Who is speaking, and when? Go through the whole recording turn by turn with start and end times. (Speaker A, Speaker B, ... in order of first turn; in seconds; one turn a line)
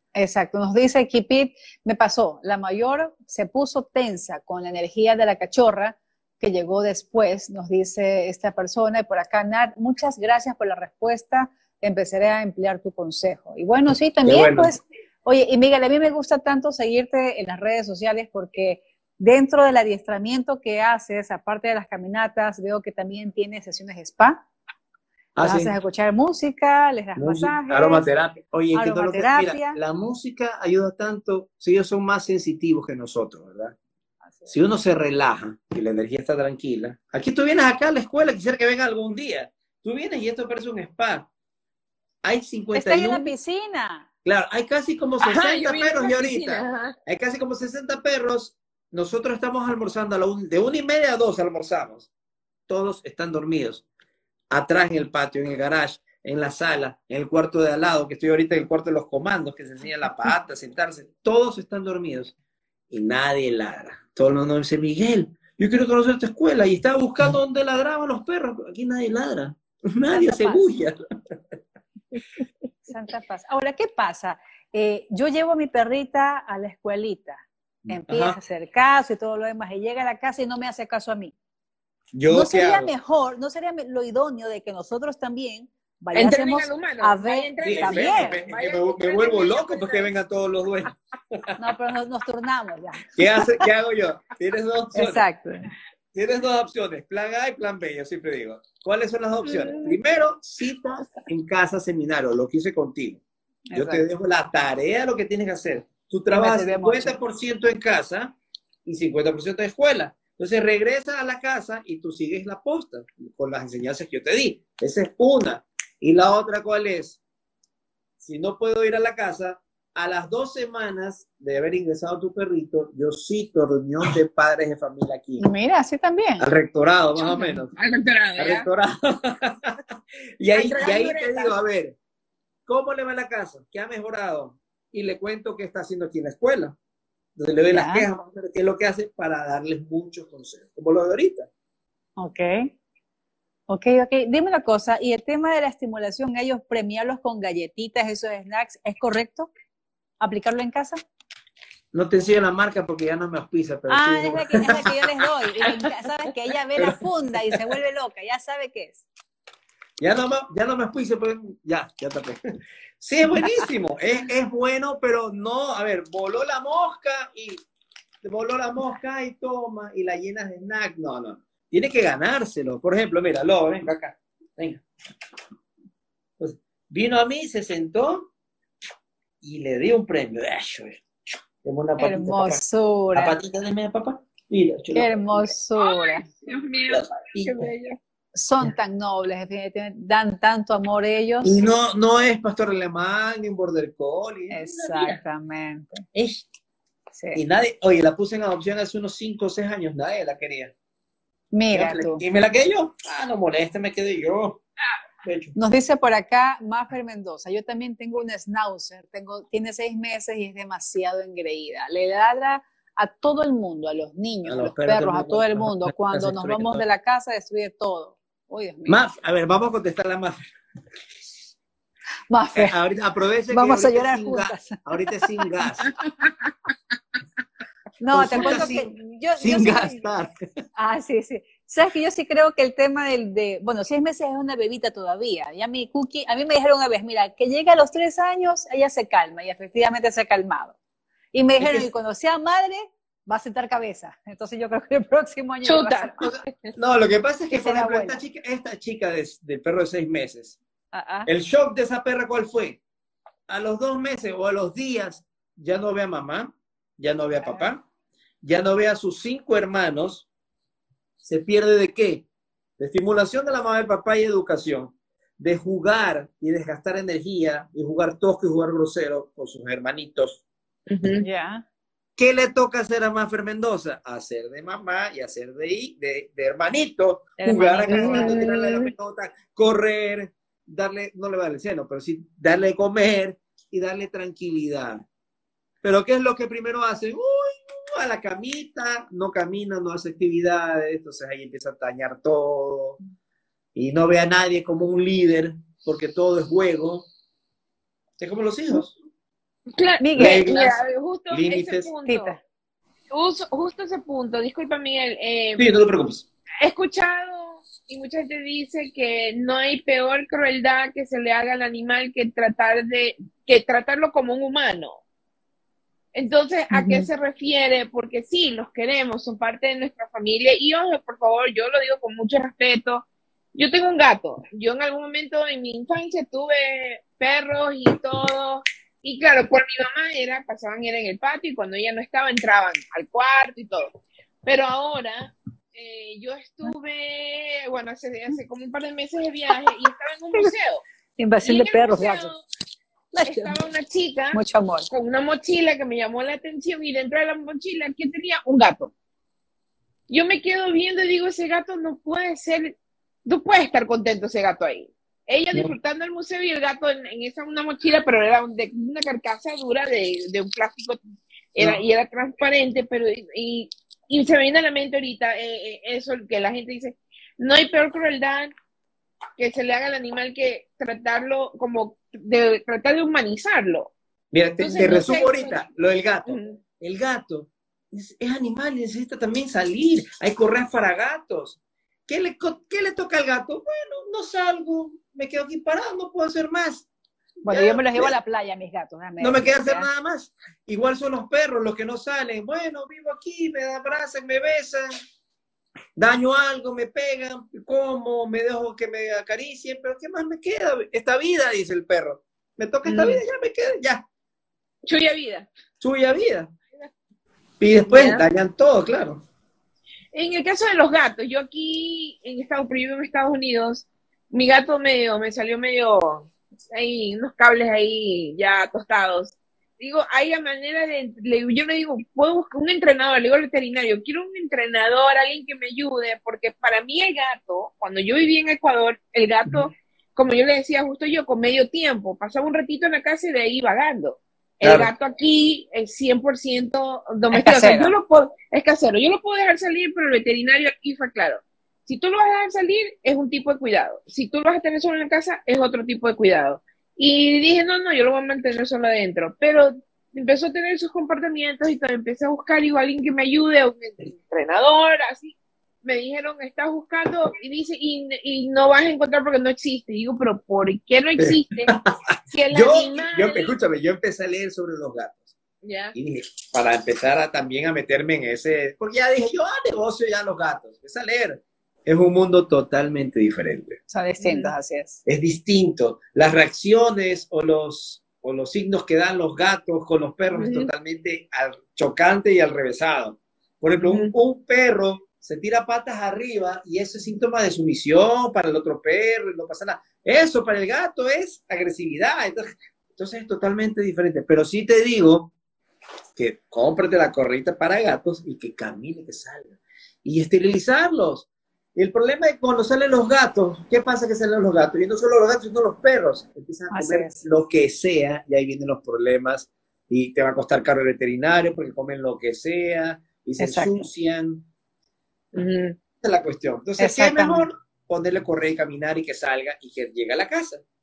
Speaker A: 0.1-24.4
Speaker B: 14.2-14.7
Speaker B: 25.4-25.7
Speaker A: 25.4-28.1
Speaker B: 27.1-33.8
Speaker A: 28.7-29.8
Speaker B: 34.5-41.3
Speaker B: 42.2-43.3
Speaker A: 42.8-44.1
Speaker B: 44.2-52.1
Speaker C: 45.2-47.0
Speaker B: 52.7-53.9
Speaker B: 54.5-62.4
Speaker B: 62.9-71.0
Speaker A: 70.1-70.6
Speaker A: 72.8-81.3
Speaker B: 77.8-78.4
Speaker B: 82.1-82.9
Speaker A: 82.3-88.4
Speaker C: 86.1-90.1
Speaker B: 87.6-91.7
Speaker A: 91.6-93.7
Speaker B: 93.2-95.2
Speaker A: 95.0-95.7
Speaker B: 96.1-103.2
Speaker C: 99.5-100.0
Speaker A: 103.7-104.1
Speaker B: 103.7-117.2
Speaker A: 106.3-107.2
Speaker B: 118.2-125.5
Speaker A: 125.4-126.5
Speaker B: 126.4-127.7
Speaker C: 127.7-128.7
Speaker B: 128.4-129.8
Speaker B: 130.4-132.0
Speaker C: 130.5-131.6
Speaker B: 132.7-136.8
Speaker B: 137.4-141.5
Speaker A: 137.7-138.1
Speaker A: 142.2-142.7
Speaker A: 143.7-149.5
Speaker A: 150.2-151.0
Speaker B: 151.9-155.0
Speaker A: 153.9-159.1
Speaker B: 156.8-157.7
Speaker B: 160.0-162.4
Speaker B: 163.0-167.6
Speaker B: 168.2-174.8
Speaker B: 176.4-178.3
Speaker B: 179.4-182.6
Speaker A: 182.0-183.4
Speaker B: 183.1-185.5
Speaker A: 184.9-186.3
Speaker C: 185.8-188.0
Speaker B: 186.9-187.7
Speaker A: 188.3-191.6
Speaker B: 191.4-195.2
Speaker A: 194.5-196.1
Speaker B: 196.1-196.4
Speaker A: 197.2-197.4
Speaker B: 197.3-200.7
Speaker A: 201.5-202.2
Speaker B: 201.7-204.6
Speaker B: 205.2-205.6
Speaker A: 205.6-219.1
Speaker B: 214.5-216.8
Speaker B: 218.9-220.4
Speaker A: 222.3-222.8
Speaker B: 222.6-225.9
Speaker A: 223.5-224.9
Speaker A: 228.0-230.1
Speaker B: 228.1-230.3
Speaker C: 228.4-228.7
Speaker A: 230.8-240.8
Speaker A: 241.3-246.2
Speaker B: 241.6-241.9
Speaker C: 245.6-246.7
Speaker B: 246.2-250.6
Speaker A: 247.5-248.2
Speaker A: 250.9-251.3
Speaker B: 251.3-252.8
Speaker B: 253.5-257.8
Speaker A: 257.4-257.7
Speaker B: 258.4-260.3
Speaker B: 261.2-262.2
Speaker B: 262.8-270.4
Speaker C: 270.9-271.2
Speaker A: 271.2-271.6
Speaker B: 272.2-285.0
Speaker A: 277.4-278.4
Speaker C: 277.8-278.9
Speaker B: 285.8-293.0
Speaker B: 293.8-297.1
Speaker B: 298.2-298.9
Speaker C: 299.8-302.4
Speaker A: 300.0-300.5
Speaker B: 300.2-300.8
Speaker B: 301.3-301.9
Speaker A: 302.1-302.4
Speaker C: 303.1-305.7
Speaker B: 305.6-306.3
Speaker C: 306.6-315.0
Speaker C: 316.1-340.8
Speaker A: 316.7-317.1
Speaker A: 341.2-342.3
Speaker C: 341.4-342.4
Speaker A: 343.1-343.6
Speaker C: 343.3-348.9
Speaker A: 344.3-344.9
Speaker C: 350.1-352.8
Speaker C: 353.3-361.0
Speaker C: 361.6-368.5
Speaker C: 369.4-373.9
Speaker B: 374.3-386.9
Speaker A: 374.6-375.4
Speaker C: 374.7-375.6
Speaker C: 376.3-376.6
Speaker B: 387.4-388.1
Speaker A: 387.5-389.9
Speaker B: 389.2-394.9
Speaker B: 396.0-404.0
Speaker C: 402.9-403.2
Speaker C: 404.9-405.5
Speaker B: 405.8-406.5
Speaker B: 407.6-409.2
Speaker C: 407.9-408.2
Speaker C: 410.1-461.7
Speaker B: 434.6-434.9
Speaker A: 437.3-437.9
Speaker B: 461.2-465.3
Speaker C: 462.3-463.5
Speaker C: 465.6-465.9
Speaker B: 465.9-473.8
Speaker A: 473.9-475.0
Speaker C: 474.2-474.5
Speaker B: 475.1-495.3
Speaker C: 480.3-480.7
Speaker C: 483.8-484.1
Speaker B: 496.2-514.5
Speaker A: 506.7-507.2
Speaker A: 513.4-513.9
Speaker C: 515.3-515.8
Speaker B: 516.0-520.6
Speaker A: 516.8-517.5